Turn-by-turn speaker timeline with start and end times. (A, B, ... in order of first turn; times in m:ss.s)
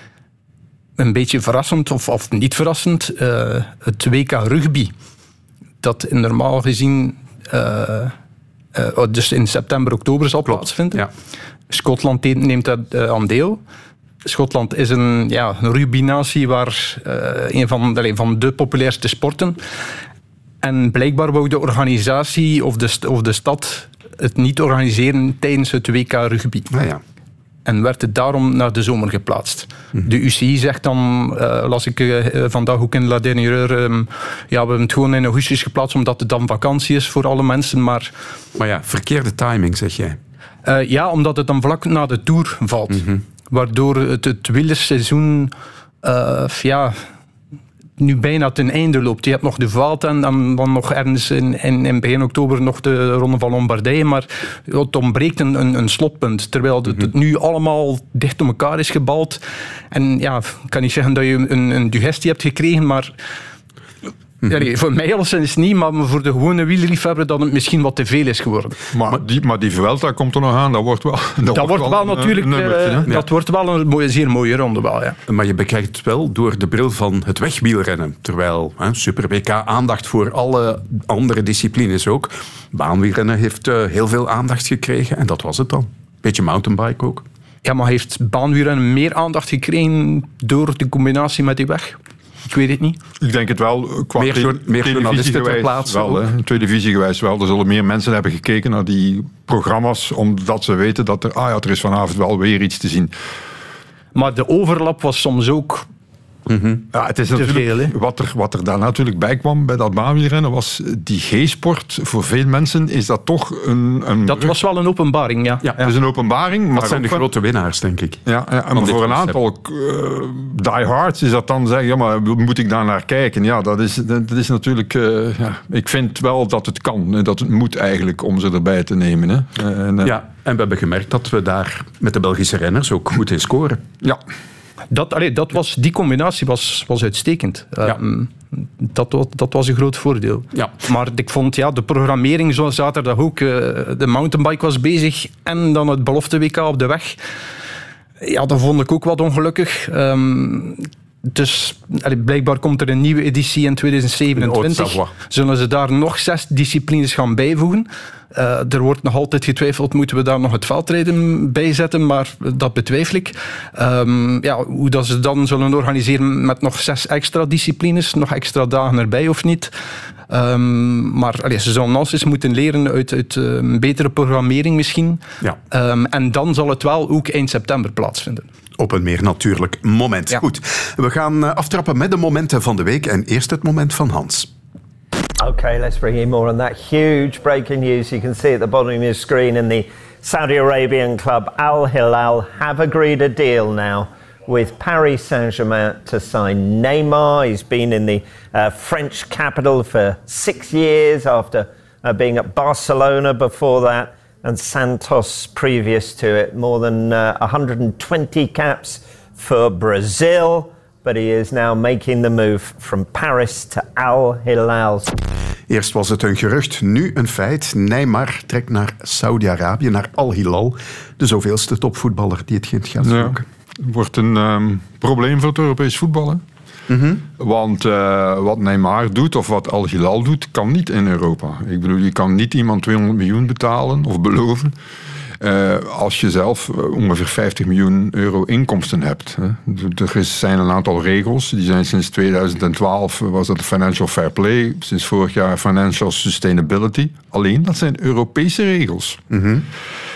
0:01.0-0:04.9 A
0:05.8-0:08.1 A
0:08.7-0:11.0 A
0:10.5-0:11.1 B
0:11.7-0:13.6 A
0:14.2-0:19.6 A
0:20.6-0:26.7 A
0:26.7-0:27.0 B
0:27.6-0:38.1 A
0:38.6-0:40.2 B
0:40.6-0:47.0 A
0:42.9-0:43.2 B
0:48.0-1:03.1 A
1:04.4-1:08.8 A
1:08.9-1:13.1 C
1:11.5-1:15.2 A
1:15.3-1:27.2 B
1:27.6-1:33.0 A
1:33.2-1:43.1 C
1:34.2-1:36.3 B
1:44.1-1:45.8 A
1:46.5-1:46.8 B
1:46.9-1:54.5 C
1:47.3-1:47.9 A
1:54.3-1:55.6 A
1:55.6-1:55.9 B
1:55.8-1:57.2 C
1:56.7-1:58.2 B
1:58.2-2:10.1 C
1:58.7-1:59.4 B
2:10.0-2:13.8 B
2:14.9-2:27.2 A
2:28.2-2:49.7 A
2:34.3-2:35.1 B
2:50.3-2:58.5 A
2:58.8-3:04.5 B
3:05.4-3:35.1 D
3:35.7-3:43.4 B
3:43.0-3:46.4 C
3:46.9-3:47.2 B
3:47.4-3:54.7 C
3:55.4-4:09.2 C
4:09.3-4:09.6 B